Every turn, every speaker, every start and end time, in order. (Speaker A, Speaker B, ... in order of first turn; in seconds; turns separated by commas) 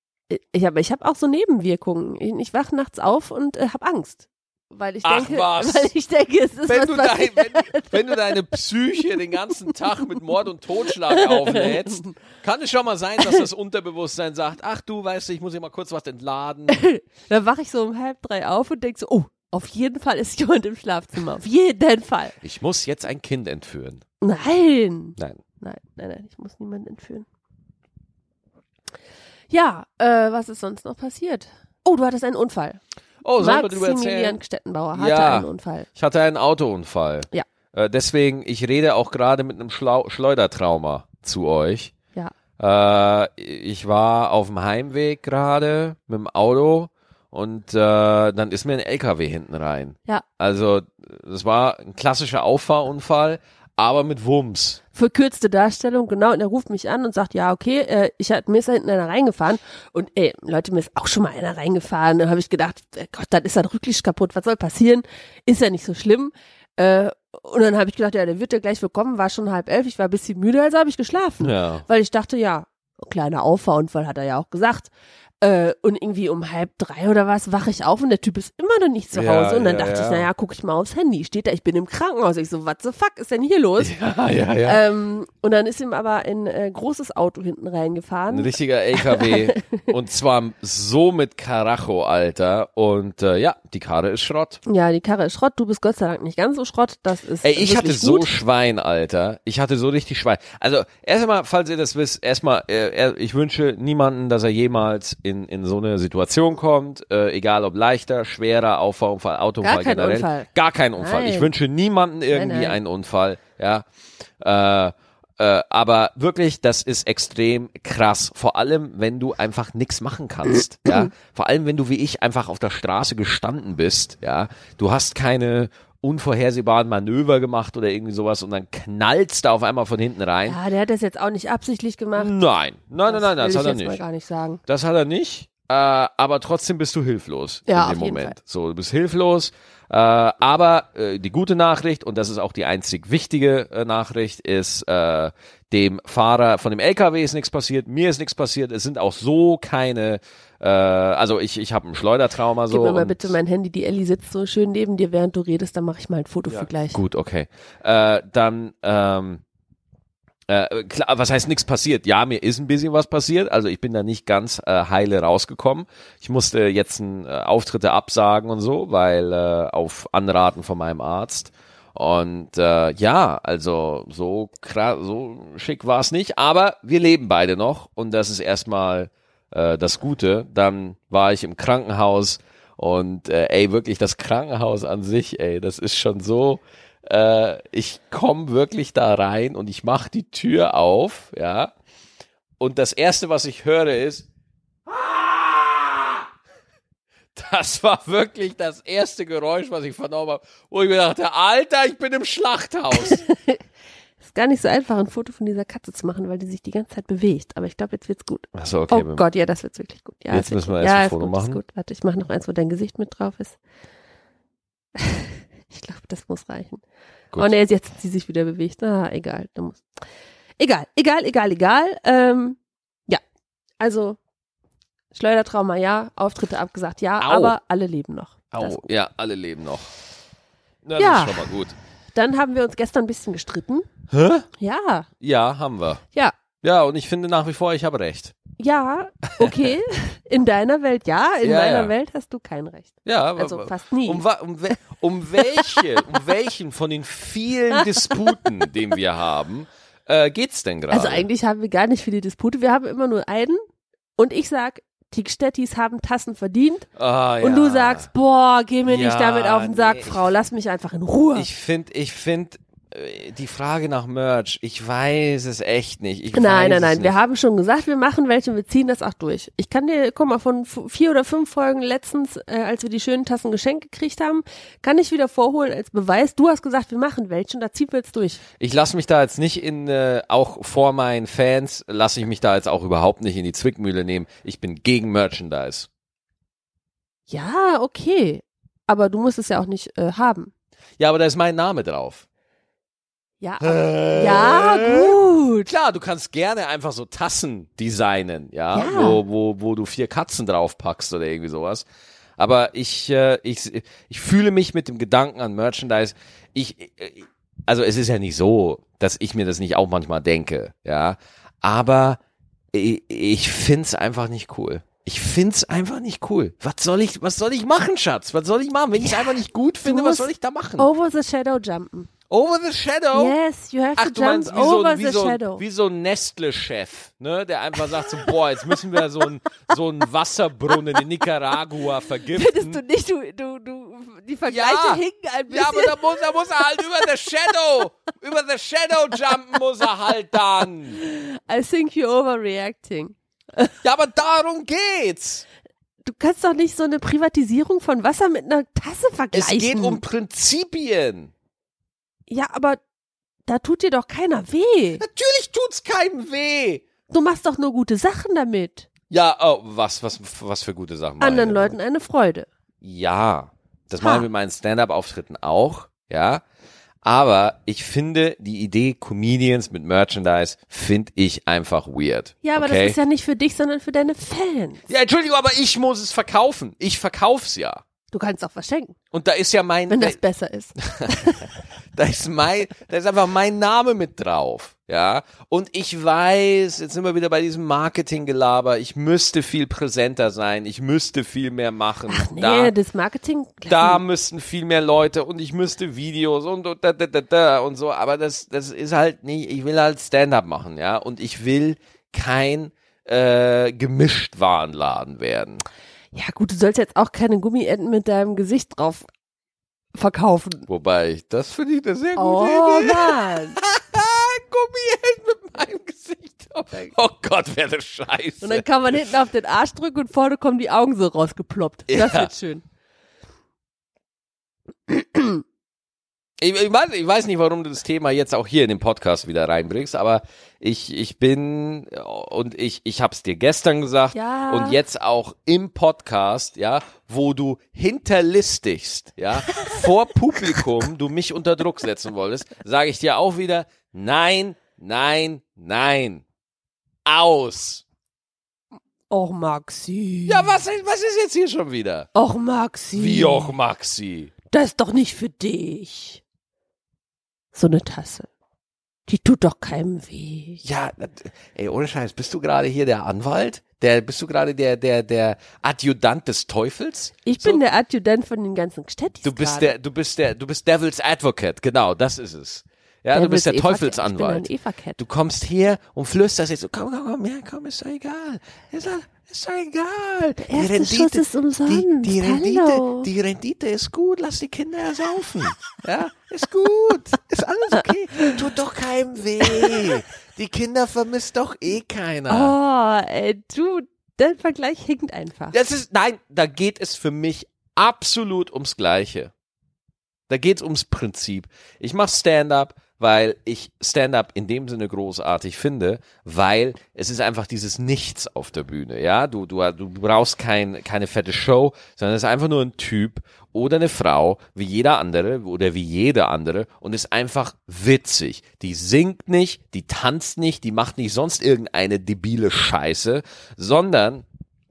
Speaker A: 0.3-8.4, Speaker B: 5.0-5.9, Speaker B: 6.7-16.9, Speaker A: 11.1-12.1, Speaker A: 16.7-22.4, Speaker B: 22.4-24.0, Speaker A: 24.2-27.3, Speaker A: 29.5-32.8, Speaker B: 33.2-34.4, Speaker A: 33.4-35.9, Speaker B: 34.9-41.9, Speaker B: 42.6-54.8, Speaker A: 54.9-84.0, Speaker B: 71.4-71.8, Speaker B: 79.1-80.3, Speaker B: 83.8-84.8, Speaker A: 84.6-89.8, Speaker B: 88.3-94.6, Speaker A: 94.7-98.3, Speaker B: 97.4-113.8, Speaker A: 109.6-111.5, Speaker A: 112.3-112.8, Speaker B: 114.4-130.6, Speaker A: 130.5-132.4, Speaker B: 132.2-134.0, Speaker A: 133.1-134.6, Speaker B: 134.7-153.3, Speaker A: 137.7-138.3, Speaker A: 152.7-157.0, Speaker B: 156.5-159.4, Speaker B: 160.5-191.7, Speaker B: 192.6-194.3, Speaker B: 194.9-196.3, Speaker B: 197.3-203.2, Speaker A: 203.0-203.6, Speaker A: 204.2-213.6, Speaker B: 208.6-209.2, Speaker B: 210.3-211.6, Speaker A: 214.9-216.8, Speaker A: 217.4-219.8, Speaker A: 220.6-223.2, Speaker A: 223.8-224.2, Speaker A: 225.1-228.9, Speaker B: 227.2-227.6, Speaker B: 228.5-229.9, Speaker B: 230.8-231.7, Speaker A: 231.0-231.5, Speaker A: 232.1-233.9, Speaker B: 234.1-234.5, Speaker A: 234.6-235.1, Speaker B: 235.2-236.0, Speaker B: 236.6-238.4, Speaker A: 238.6-244.2, Speaker B: 239.3-239.7, Speaker B: 241.4-241.9, Speaker B: 243.1-251.3, Speaker A: 245.4-245.9, Speaker A: 247.7-248.3, Speaker A: 250.9-253.6, Speaker A: 254.2-256.9, Speaker B: 257.0-258.1, Speaker A: 257.4-261.5, Speaker B: 258.9-260.3, Speaker B: 261.4-267.1, Speaker A: 266.3-278.4, Speaker B: 278.6-285.9, Speaker A: 287.3-290.5, Speaker B: 291.0-292.2, Speaker A: 293.4-295.7, Speaker B: 293.6-301.9, Speaker A: 298.7-299.2, Speaker B: 302.4-312.2, Speaker B: 312.7-320.9, Speaker A: 318.9-322.1, Speaker B: 322.3-323.4, Speaker A: 323.1-325.6, Speaker B: 324.0-332.8, Speaker A: 328.0-328.3, Speaker A: 332.3-337.2, Speaker B: 334.5-341.0, Speaker A: 341.0-343.7, Speaker B: 343.8-345.4, Speaker A: 346.0-350.0, Speaker B: 349.3-351.3, Speaker A: 352.3-352.8, Speaker A: 353.5-355.0, Speaker B: 355.0-356.9, Speaker A: 357.1-358.9, Speaker B: 359.1-361.8, Speaker A: 361.2-362.5, Speaker B: 362.8-366.4, Speaker A: 364.0-364.3, Speaker B: 367.0-373.0, Speaker A: 372.4-374.8, Speaker B: 374.9-377.8, Speaker A: 378.1-379.0, Speaker B: 379.1-380.2, Speaker A: 379.9-381.5, Speaker B: 380.8-392.7, Speaker A: 392.1-394.0, Speaker B: 393.7-405.6, Speaker A: 406.1-409.1, Speaker A: 409.9-410.7, Speaker B: 410.7-419.0, Speaker A: 412.2-413.6, Speaker A: 418.4-422.6, Speaker B: 421.9-422.3, Speaker A: 424.9-425.4, Speaker B: 426.4-446.2, Speaker A: 434.1-434.8, Speaker A: 439.6-439.9, Speaker B: 447.1-447.8, Speaker A: 449.1-450.5, Speaker B: 450.3-452.1, Speaker A: 452.1-453.6, Speaker B: 452.9-454.3, Speaker A: 454.5-456.2, Speaker A: 457.5-458.3, Speaker A: 459.1-460.6, Speaker B: 460.6-467.6, Speaker A: 467.2-469.7, Speaker B: 469.2-492.6, Speaker A: 473.1-475.0, Speaker A: 480.5-483.1, Speaker A: 489.4-490.0, Speaker A: 492.3-495.6, Speaker B: 495.5-499.3, Speaker B: 500.3-524.2